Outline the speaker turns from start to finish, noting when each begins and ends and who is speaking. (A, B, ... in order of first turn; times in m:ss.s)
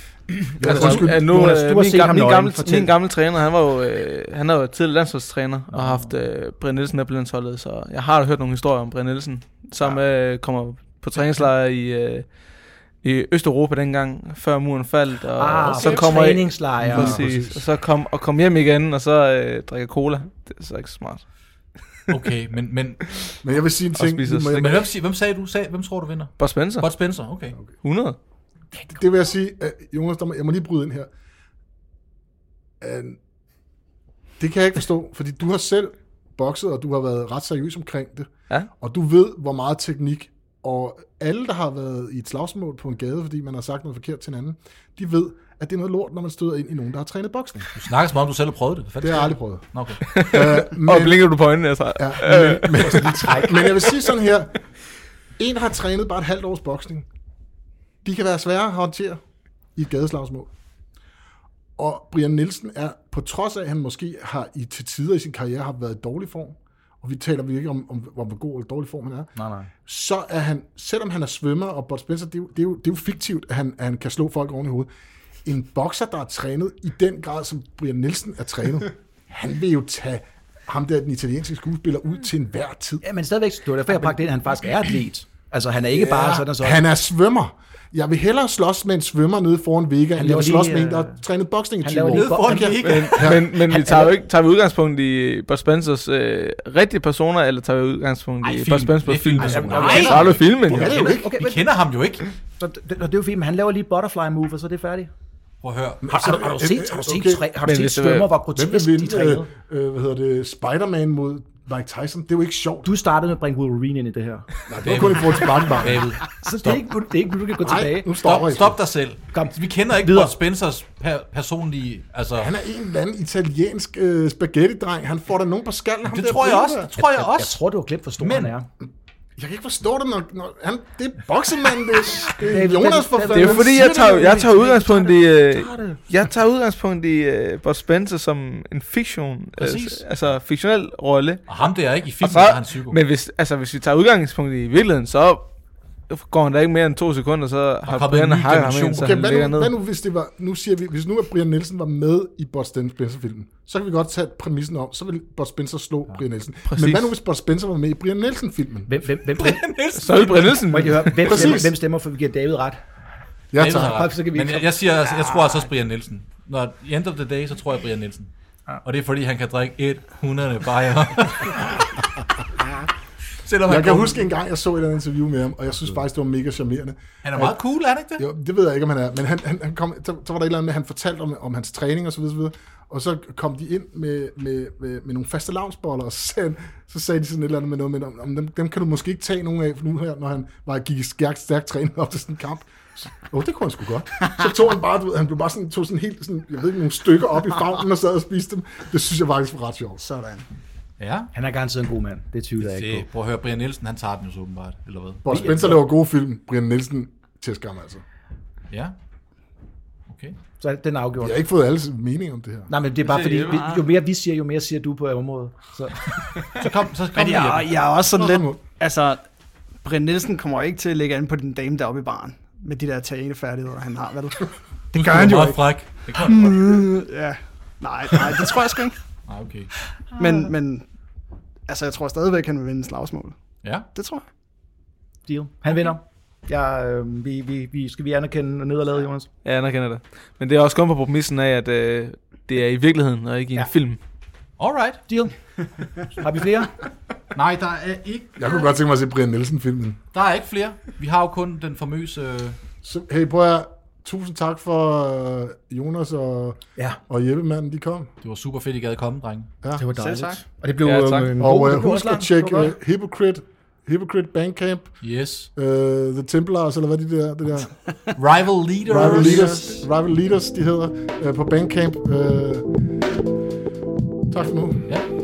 0:00.5-0:01.4 A
0:00.6-0:02.9 B
0:00.6-0:12.3 C
0:05.7-0:06.1 D
0:13.0-0:21.2 C
0:15.4-0:17.3 B
0:15.7-0:16.1 D
0:16.8-0:17.6 A
0:22.1-0:23.1 D
0:23.4-0:24.8 A
0:23.9-0:24.8 C
0:24.6-0:27.6 D
0:26.4-0:26.9 C
0:27.8-0:28.2 C
0:28.8-0:31.1 A
0:32.8-0:33.2 A
0:34.4-0:47.7 A
0:47.7-0:50.0 D
0:49.0-0:49.6 A
0:50.0-0:53.4 C
0:50.2-0:51.3 A
0:52.0-0:54.6 A
0:52.9-0:53.7 B
0:55.4-0:57.0 A
0:58.0-0:59.2 A
0:59.8-1:00.5 A
1:01.8-1:09.3 A
1:09.3-1:09.7 B
1:09.8-1:14.9 A
1:15.4-1:23.0 A
1:23.0-1:26.8 B
1:25.9-1:33.4 A
1:30.2-1:31.2 B
1:31.8-1:32.8 B
1:32.1-1:33.4 D
1:32.8-1:41.0 C
1:33.7-1:34.1 B
1:38.4-1:42.2 D
1:39.4-1:41.6 B
1:40.7-1:41.4 A
1:42.6-1:45.1 B
1:45.6-1:46.2 D
1:46.0-1:47.4 A
1:46.1-1:49.5 B
1:47.6-1:48.3 C
1:48.5-1:52.9 A
1:52.8-1:54.5 B
1:54.7-1:56.1 A
1:54.8-1:56.8 D
1:56.2-1:58.1 B
1:57.6-1:58.8 A
1:58.2-2:02.5 D
1:59.3-2:00.4 B
2:02.4-2:06.9 A
2:06.0-2:07.6 D
2:07.0-2:08.7 B
2:08.2-2:08.5 D
2:09.4-2:14.6 A
2:12.4-2:16.0 B
2:13.3-2:21.5 C
2:19.6-2:20.0 D
2:21.5-2:23.0 D
2:22.2-2:25.5 C
2:26.1-2:29.7 C
2:27.8-2:29.2 D
2:29.0-2:38.9 A
2:36.7-2:37.1 C
2:38.9-2:39.7 B
2:39.4-2:40.9 D
2:40.0-2:41.6 C
2:40.7-2:42.8 B
2:41.3-2:41.8 A
2:43.5-2:44.0 A
2:43.6-2:48.3 D
2:43.8-2:44.8 B
2:48.8-2:52.0 D
2:53.4-2:54.2 D
2:53.6-2:57.6 A
2:57.2-2:58.2 D
2:58.2-3:20.0 A
3:20.0-3:20.4 E
3:21.0-3:21.3 D
3:21.3-3:23.0 B
3:22.6-3:25.8 D
3:25.2-3:28.0 A
3:28.7-3:29.0 D
3:30.1-3:30.4 D
3:30.6-3:31.4 B
3:31.2-3:32.7 A
3:32.7-3:36.1 B
3:33.0-3:33.8 C
3:33.5-3:33.8 E
3:36.4-3:37.8 D
3:37.1-3:39.2 E
3:38.1-3:38.6 A
3:39.8-3:49.0 E
3:44.9-3:46.7 D
3:49.3-3:49.7 D
3:50.1-3:50.8 E
3:51.7-3:54.2 E
3:53.6-3:53.9 D
3:55.3-3:59.3 B
3:59.4-4:04.0 C
4:04.6-4:05.0 D
4:05.1-4:05.3 B
4:06.2-4:06.8 B
4:07.3-4:08.6 D
4:08.4-4:10.0 A
4:10.1-4:12.6 D
4:12.8-4:18.1 A
4:18.2-4:19.5 D
4:19.8-4:22.7 B
4:19.9-4:20.4 E
4:20.8-4:21.3 C
4:21.3-4:25.0 A
4:25.0-4:25.5 D
4:25.5-4:27.8 A
4:28.2-4:29.6 D
4:28.8-4:32.7 A
4:29.1-4:29.8 E
4:34.3-4:34.9 A